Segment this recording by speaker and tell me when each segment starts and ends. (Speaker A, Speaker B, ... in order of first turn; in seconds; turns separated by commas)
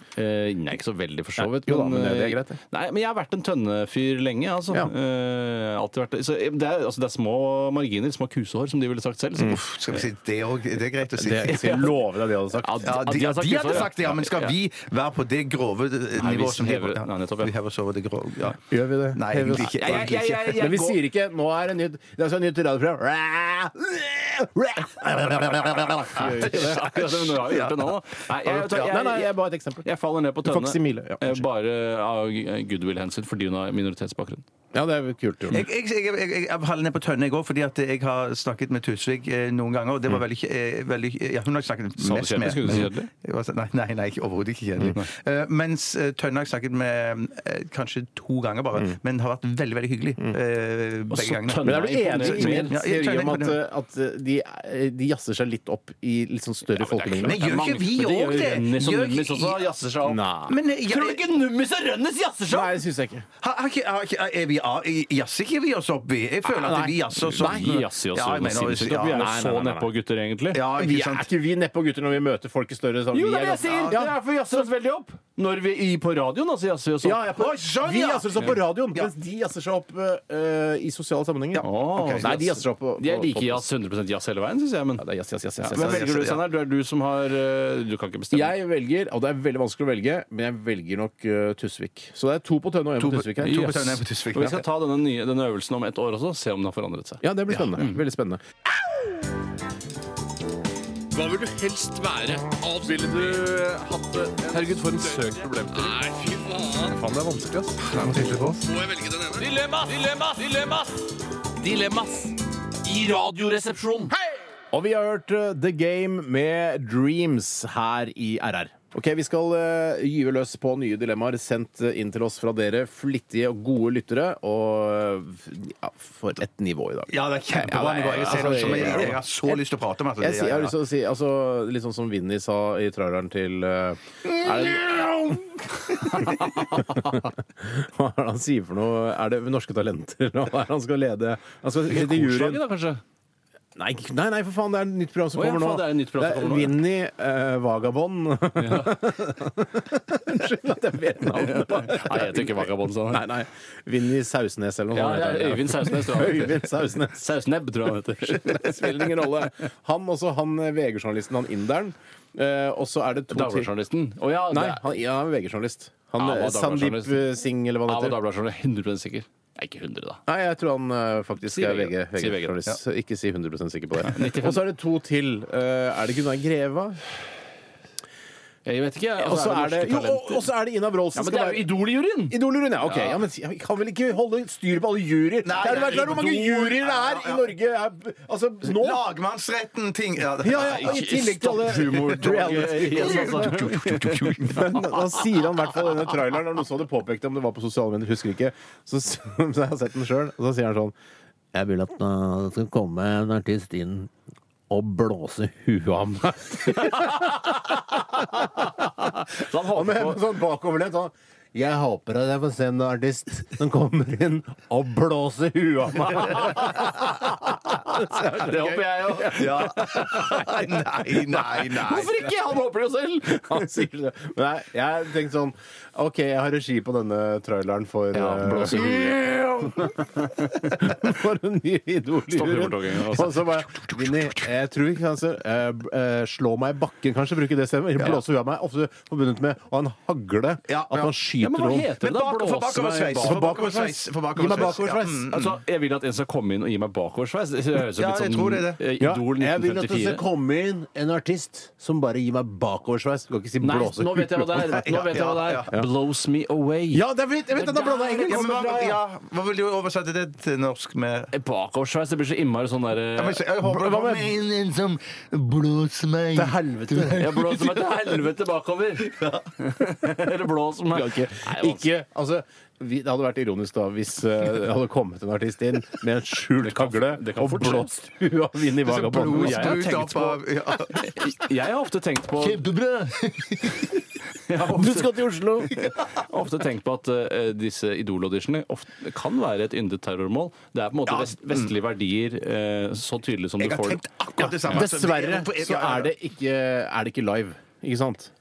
Speaker A: 0.2-10.0, Speaker B: 1.4-2.6, Speaker C: 9.4-11.7, Speaker B: 11.1-12.9, Speaker A: 11.4-12.0, Speaker A: 12.5-14.5, Speaker C: 12.8-20.6, Speaker A: 16.1-17.5, Speaker B: 18.7-27.1, Speaker A: 19.5-21.0, Speaker A: 26.1-34.4, Speaker C: 26.7-27.9, Speaker B: 28.5-29.9, Speaker B: 30.4-31.4, Speaker B: 34.7-35.6, Speaker C: 35.5-53.6, Speaker A: 42.0-43.1, Speaker A: 51.1-52.8, Speaker B: 51.6-57.5, Speaker A: 56.7-60.2, Speaker C: 57.2-59.7, Speaker B: 60.0-60.6, Speaker C: 60.5-61.2, Speaker A: 60.9-62.8, Speaker B: 62.5-63.2, Speaker C: 63.4-69.2, Speaker B: 66.4-67.8, Speaker A: 67.3-70.6, Speaker B: 69.1-69.9, Speaker C: 70.5-71.3, Speaker B: 70.7-74.2, Speaker A: 73.1-77.2, Speaker C: 73.6-74.0, Speaker B: 77.0-81.7, Speaker C: 77.3-79.1, Speaker A: 81.6-85.0, Speaker C: 81.9-82.3, Speaker B: 82.2-83.7, Speaker B: 85.0-86.1, Speaker A: 85.6-88.5, Speaker C: 85.7-86.4, Speaker B: 88.3-93.8, Speaker C: 93.0-94.6, Speaker A: 93.4-98.0, Speaker B: 97.2-98.4, Speaker D: 101.1-107.0, Speaker E: 102.9-103.8, Speaker E: 104.5-106.1, Speaker E: 106.9-108.8, Speaker D: 108.7-111.1, Speaker D: 111.6-114.1, Speaker B: 114.7-129.6, Speaker C: 127.1-130.7, Speaker B: 130.2-142.6, Speaker A: 136.1-137.0, Speaker A: 141.8-143.0, Speaker B: 143.8-157.3, Speaker A: 145.3-146.8, Speaker A: 148.6-149.0, Speaker A: 151.3-153.3, Speaker A: 154.9-159.4, Speaker B: 158.2-163.7, Speaker A: 163.3-164.8, Speaker B: 164.5-168.2, Speaker A: 166.2-167.3, Speaker A: 167.8-170.2, Speaker B: 170.3-177.0, Speaker A: 171.4-172.6, Speaker A: 174.0-174.6, Speaker A: 178.6-180.5, Speaker B: 179.2-189.1, Speaker A: 181.1-183.2, Speaker C: 185.4-187.5, Speaker A: 185.6-186.3, Speaker C: 188.6-191.1, Speaker B: 190.4-193.6, Speaker A: 190.5-195.2, Speaker C: 192.3-194.7, Speaker B: 194.4-200.9, Speaker B: 201.5-204.1, Speaker B: 204.7-209.1, Speaker A: 206.8-207.4, Speaker A: 208.8-210.2, Speaker B: 209.7-220.9, Speaker A: 216.1-216.9, Speaker A: 218.1-220.6, Speaker C: 219.2-222.2, Speaker A: 221.4-223.8, Speaker B: 223.4-230.1, Speaker A: 228.1-230.9, Speaker B: 230.6-241.9, Speaker A: 232.3-233.5, Speaker C: 233.9-234.4, Speaker C: 240.7-241.1, Speaker A: 241.4-243.5, Speaker C: 242.0-245.6, Speaker B: 243.2-245.3, Speaker A: 245.3-250.2, Speaker C: 247.9-248.8, Speaker B: 249.0-255.1, Speaker A: 253.6-257.0, Speaker C: 254.6-255.7, Speaker B: 256.9-259.0, Speaker A: 257.6-258.4, Speaker C: 257.9-261.3, Speaker A: 261.3-263.4, Speaker C: 263.1-267.8, Speaker B: 263.6-264.4, Speaker B: 266.3-267.5, Speaker A: 267.1-271.8, Speaker C: 269.1-269.4, Speaker B: 270.9-279.9, Speaker A: 276.6-277.9, Speaker C: 278.8-281.1, Speaker A: 279.2-282.6, Speaker C: 282.4-284.0, Speaker A: 284.3-294.0, Speaker B: 284.6-285.9, Speaker C: 291.1-291.7, Speaker C: 293.6-296.1, Speaker B: 294.6-298.3